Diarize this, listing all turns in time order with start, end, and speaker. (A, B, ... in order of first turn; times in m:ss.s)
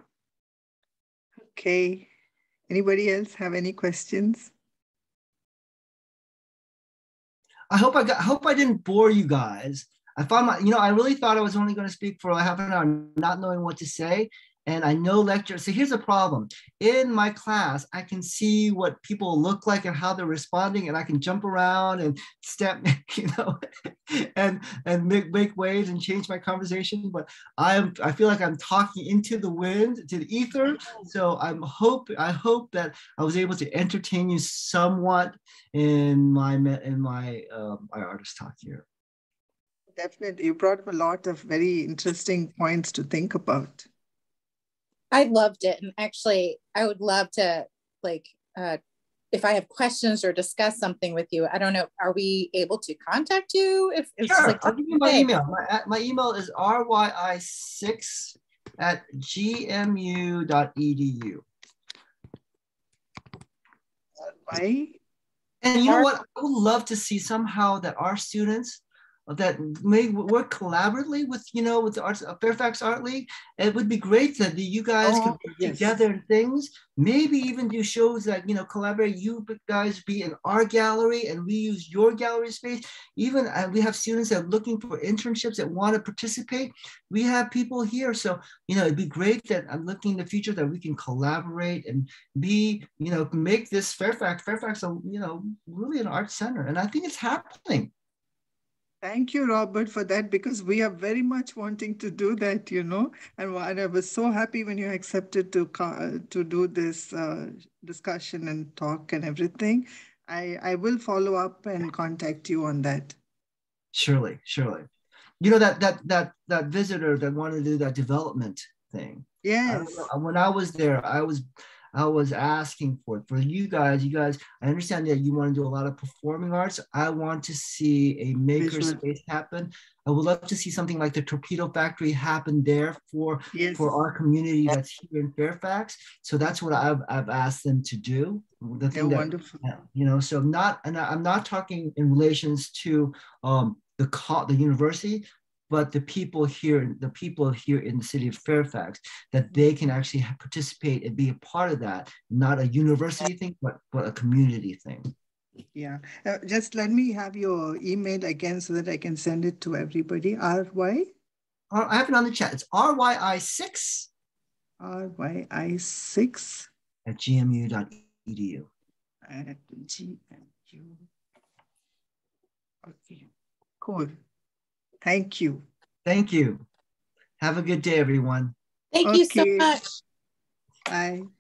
0:01.4-0:02.1 A
0:02.7-0:04.5 A
0:07.7-0:38.9 B
0:40.0-0:43.9 A
0:45.1-0:48.8 C
0:49.3-0:55.3 C
0:54.2-1:01.5 B
1:04.2-1:05.0 A
1:05.6-1:37.9 B
1:15.0-1:16.0 A
1:39.0-1:53.2 A
1:53.9-1:54.9 B
1:55.4-2:35.1 B
1:59.4-2:00.1 A
2:08.6-2:09.0 A
2:13.5-2:14.0 A
2:18.9-2:19.6 A
2:35.7-2:41.1 A
2:41.7-2:44.1 B
2:44.8-2:46.7 A
2:47.1-2:48.7 B
2:49.2-2:51.0 A
2:52.8-2:54.2 A
2:55.0-2:55.6 A
2:56.0-2:56.6 B
2:57.4-2:58.6 B
2:58.9-2:59.9 C
2:59.0-2:59.8 A
3:00.9-3:01.3 A